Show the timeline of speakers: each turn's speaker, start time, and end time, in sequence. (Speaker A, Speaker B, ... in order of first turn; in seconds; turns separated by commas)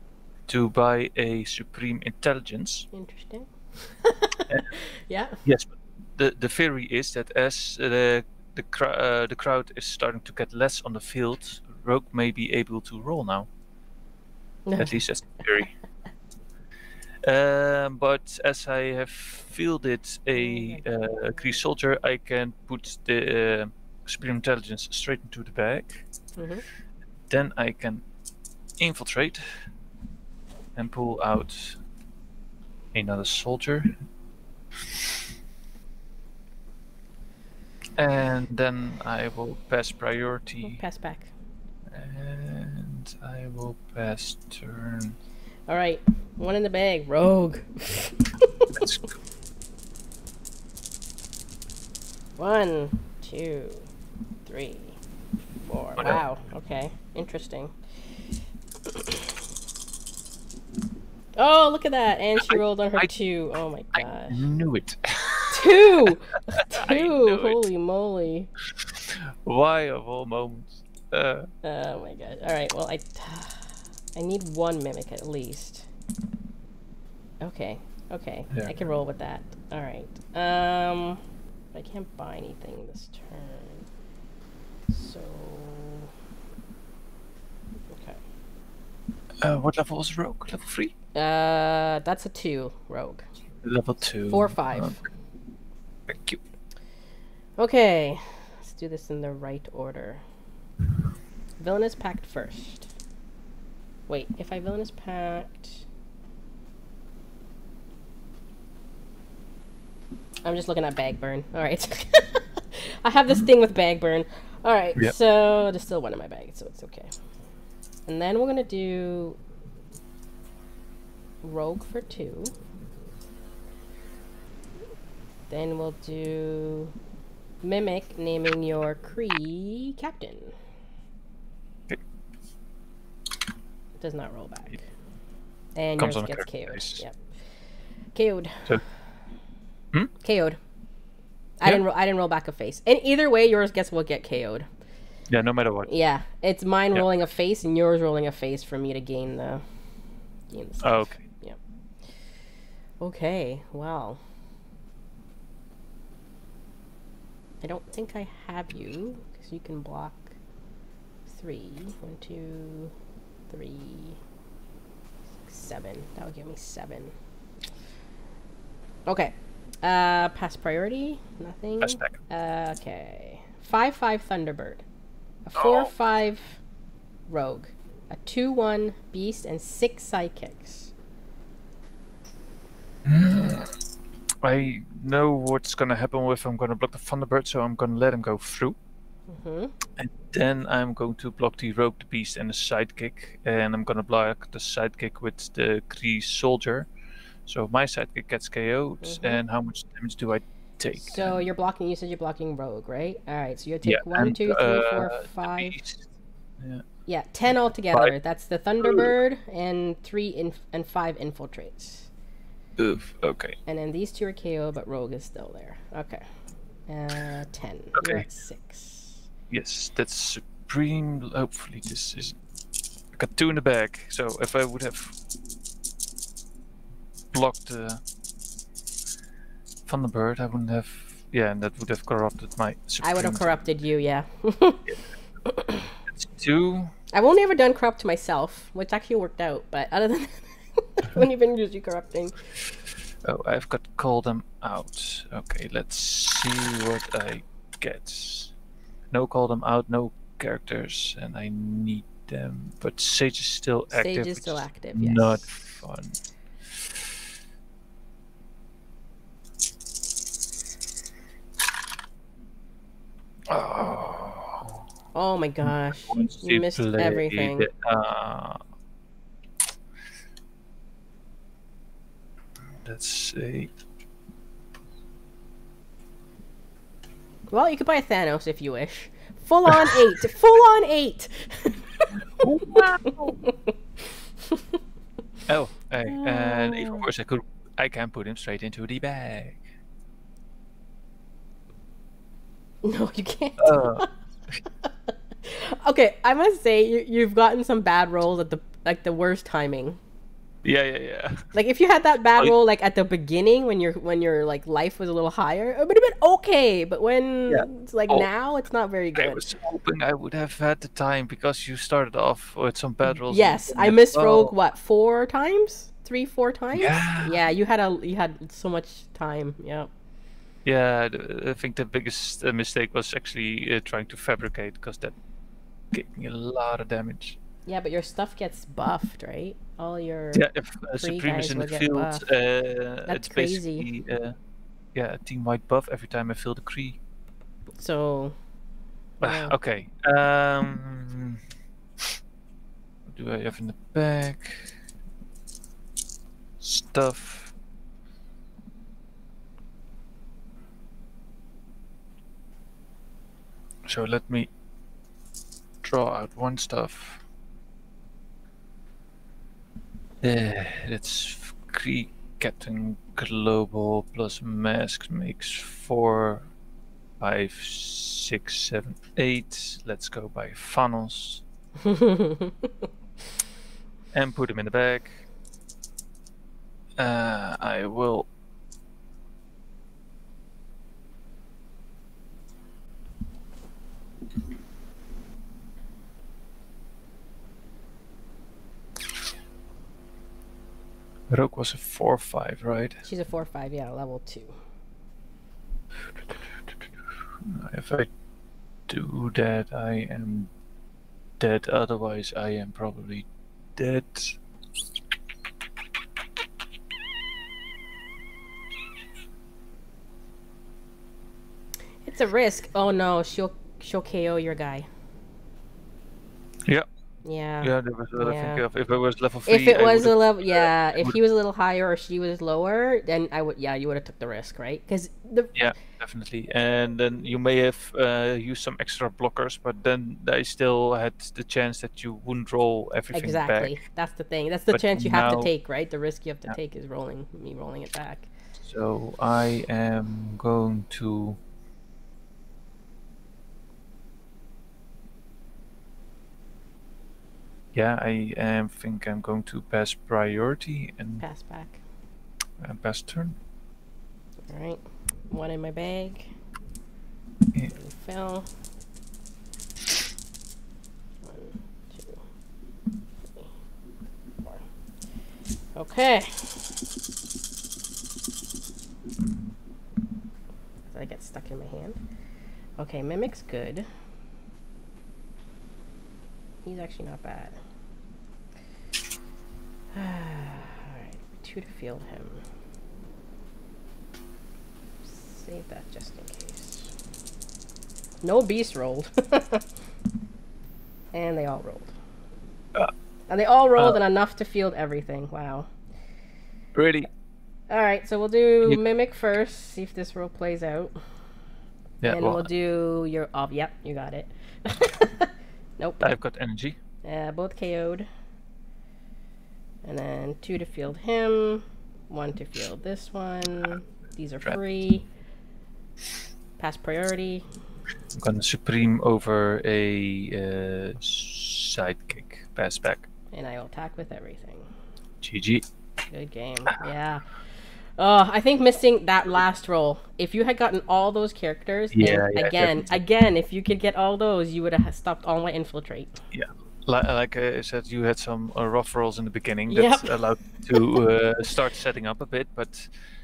Speaker A: 0.5-2.9, Speaker B: 2.9-5.4, Speaker A: 5.4-13.5, Speaker B: 14.7-15.0, Speaker A: 14.8-15.7, Speaker A: 17.2-26.1, Speaker B: 20.4-20.8, Speaker B: 26.4-26.6, Speaker A: 27.3-28.0, Speaker A: 28.8-29.6, Speaker A: 30.8-31.8, Speaker A: 32.9-33.9, Speaker A: 38.0-40.8, Speaker B: 40.6-41.3, Speaker A: 41.9-45.1, Speaker B: 45.7-48.7, Speaker A: 48.7-49.2, Speaker B: 52.4-53.9, Speaker B: 54.5-55.0, Speaker B: 55.6-57.8, Speaker A: 56.0-56.2, Speaker B: 58.8-59.4, Speaker B: 61.4-64.4, Speaker A: 62.5-63.1, Speaker A: 63.9-67.6, Speaker B: 65.5-68.5, Speaker A: 68.8-71.5, Speaker B: 71.6-75.9, Speaker B: 77.4-81.2, Speaker B: 81.7-83.8, Speaker B: 84.9-86.1, Speaker B: 87.9-88.2, Speaker A: 89.4-90.9, Speaker B: 91.1-93.3, Speaker A: 93.6-95.0, Speaker B: 94.3-95.0, Speaker A: 96.1-96.4, Speaker B: 97.6-100.2, Speaker B: 101.6-102.9, Speaker B: 104.1-105.8, Speaker B: 110.4-117.1, Speaker B: 118.1-119.4, Speaker B: 121.4-122.5, Speaker B: 125.5-126.9, Speaker B: 127.6-130.5, Speaker B: 134.0-134.9, Speaker B: 135.7-137.2, Speaker A: 136.0-137.0, Speaker B: 138.1-138.8, Speaker B: 140.2-140.6, Speaker B: 141.6-144.7, Speaker A: 145.3-145.9, Speaker B: 145.9-149.6, Speaker B: 150.5-151.6, Speaker A: 150.8-151.3, Speaker B: 153.0-154.2, Speaker B: 157.6-160.3, Speaker B: 161.3-162.9, Speaker B: 163.5-164.2, Speaker B: 165.4-167.1, Speaker B: 169.1-174.8, Speaker A: 171.8-172.2, Speaker B: 175.4-176.6, Speaker A: 175.6-175.9, Speaker B: 177.3-180.9, Speaker A: 183.0-183.7, Speaker A: 184.4-188.8, Speaker B: 189.3-189.7, Speaker A: 190.0-196.9, Speaker A: 197.5-201.4, Speaker B: 199.0-199.4, Speaker B: 201.1-205.8, Speaker A: 203.8-206.1, Speaker A: 206.6-206.8, Speaker B: 207.1-212.1, Speaker A: 208.8-209.1, Speaker A: 212.8-213.6, Speaker B: 213.7-216.2, Speaker B: 216.9-219.2, Speaker A: 217.9-218.2, Speaker A: 219.5-222.4, Speaker A: 223.1-225.2, Speaker A: 227.3-228.0, Speaker A: 229.8-233.5, Speaker B: 233.0-234.9, Speaker B: 235.4-235.9, Speaker A: 236.1-236.9, Speaker B: 237.1-242.4, Speaker A: 243.2-248.5, Speaker A: 249.1-256.1, Speaker B: 253.9-255.5, Speaker A: 256.7-257.1, Speaker A: 263.5-264.8, Speaker B: 265.1-267.7, Speaker A: 265.6-268.6, Speaker A: 272.8-273.7, Speaker B: 277.5-284.8, Speaker A: 282.4-283.4, Speaker A: 285.5-289.6, Speaker B: 286.1-287.1, Speaker B: 292.8-294.1, Speaker A: 293.6-294.1, Speaker B: 294.8-300.0, Speaker A: 300.6-301.5, Speaker B: 301.5-309.4, Speaker A: 307.5-308.3, Speaker A: 309.1-314.5, Speaker B: 313.2-319.9, Speaker A: 316.7-317.4, Speaker A: 320.6-325.1, Speaker A: 325.9-327.4, Speaker B: 327.6-332.2, Speaker A: 330.3-334.4, Speaker B: 333.1-333.9, Speaker A: 334.9-337.0, Speaker B: 337.8-338.4, Speaker B: 339.2-339.6, Speaker A: 339.2-341.4, Speaker A: 343.1-344.8, Speaker A: 346.6-347.5, Speaker A: 353.9-354.5, Speaker A: 355.8-357.2, Speaker A: 360.2-366.5, Speaker A: 367.2-371.4, Speaker B: 371.8-372.9, Speaker A: 374.1-375.3, Speaker A: 377.0-378.3, Speaker A: 391.3-393.0, Speaker B: 393.0-394.6, Speaker A: 396.2-396.8, Speaker A: 397.4-398.1, Speaker A: 398.9-400.5, Speaker A: 401.4-404.4, Speaker B: 412.0-414.9, Speaker B: 417.2-418.6, Speaker A: 417.6-421.1, Speaker B: 419.4-425.7, Speaker A: 425.5-433.8, Speaker B: 433.1-438.3, Speaker A: 434.7-435.5, Speaker A: 438.6-441.4, Speaker A: 447.7-451.2, Speaker B: 451.2-451.8, Speaker A: 452.6-453.4, Speaker B: 454.5-456.3, Speaker B: 457.7-458.5, Speaker B: 461.2-462.2, Speaker B: 464.4-464.6, Speaker B: 465.7-466.8, Speaker B: 470.9-472.0, Speaker B: 472.8-473.9, Speaker B: 476.6-477.6, Speaker B: 479.9-482.4, Speaker B: 485.0-486.9, Speaker B: 488.2-489.7, Speaker B: 491.1-491.9, Speaker B: 493.3-495.7, Speaker A: 496.7-497.1, Speaker B: 497.7-501.0, Speaker A: 502.0-502.5, Speaker B: 502.1-506.1, Speaker A: 506.0-506.8, Speaker B: 507.0-508.1, Speaker B: 509.8-515.0, Speaker B: 516.6-517.5, Speaker A: 518.1-523.1, Speaker B: 523.3-524.7, Speaker A: 525.2-525.6, Speaker B: 526.1-527.3, Speaker B: 528.0-536.2, Speaker A: 531.9-533.0, Speaker A: 536.3-542.9, Speaker B: 539.7-540.1